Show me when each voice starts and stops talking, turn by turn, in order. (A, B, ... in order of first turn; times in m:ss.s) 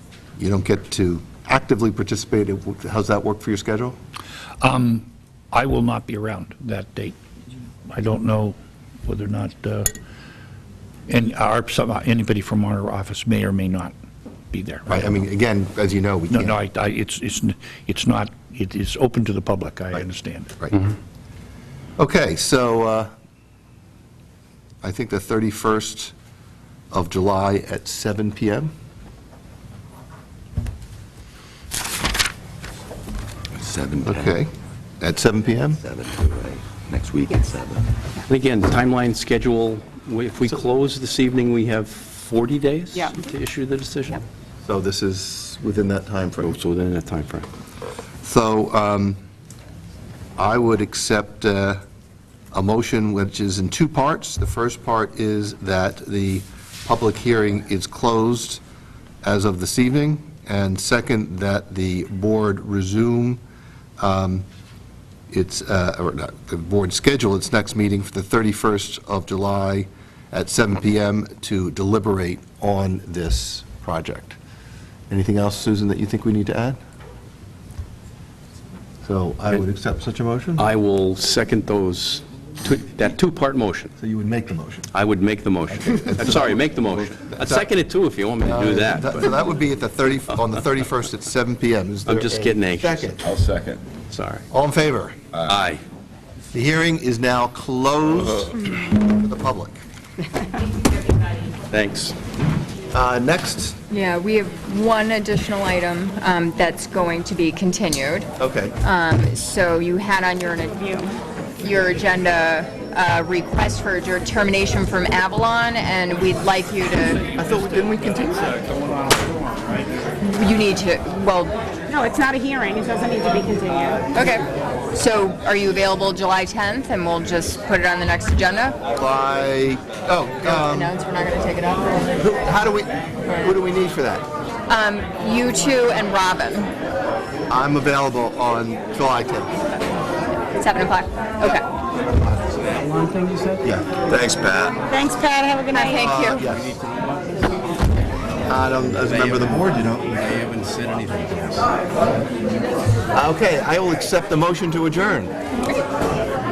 0:00.4-0:04.0 A
0:04.6-0:07.2 B
0:07.9-0:09.9 B
0:11.1-0:13.9 B
0:14.5-0:15.2 B
0:14.9-0:16.6 A
0:16.3-0:20.5 B
0:22.0-0:23.1 A
0:24.8-0:26.1 A
0:26.9-0:28.7 A
0:33.6-0:34.4 C
0:34.0-0:35.8 A
0:35.8-0:37.8 C
0:37.2-0:37.6 D
0:38.3-0:44.2 E
0:44.6-0:46.6 A
0:46.4-0:47.5 E
0:48.2-0:49.2 A
0:50.4-0:51.8 A
0:52.5-0:58.6 A
0:59.2-1:03.4 A
1:04.0-1:04.4 A
1:05.3-1:14.4 A
1:15.1-1:16.8 A
1:19.0-1:20.7 A
1:20.6-1:23.9 E
1:24.0-1:24.9 A
1:24.9-1:29.4 E
1:26.1-1:27.7 A
1:28.4-1:33.2 A
1:32.0-1:33.2 E
1:33.2-1:33.8 C
1:34.1-1:34.4 E
1:34.5-1:35.2 A
1:35.4-1:35.8 E
1:36.5-1:39.8 A
1:41.7-1:42.1 E
1:42.9-1:43.8 A
1:43.9-1:48.3 F
1:48.4-1:48.7 A
1:48.8-1:51.1 F
1:51.6-1:57.3 F
1:57.3-1:59.2 A
2:00.2-2:01.5 F
2:01.9-2:04.0 D
2:04.1-2:08.8 F
2:08.9-2:10.9 A
2:10.4-2:12.1 F
2:12.2-2:14.2 A
2:14.7-2:16.7 F
2:17.5-2:19.6 A
2:20.6-2:21.6 F
2:22.2-2:22.6 A
2:22.8-2:23.6 E
2:23.6-2:24.8 A
2:24.8-2:26.0 D
2:25.7-2:26.4 F
2:26.0-2:26.8 A
2:28.4-2:30.2 A
2:28.9-2:31.7 E
2:33.1-2:35.3 A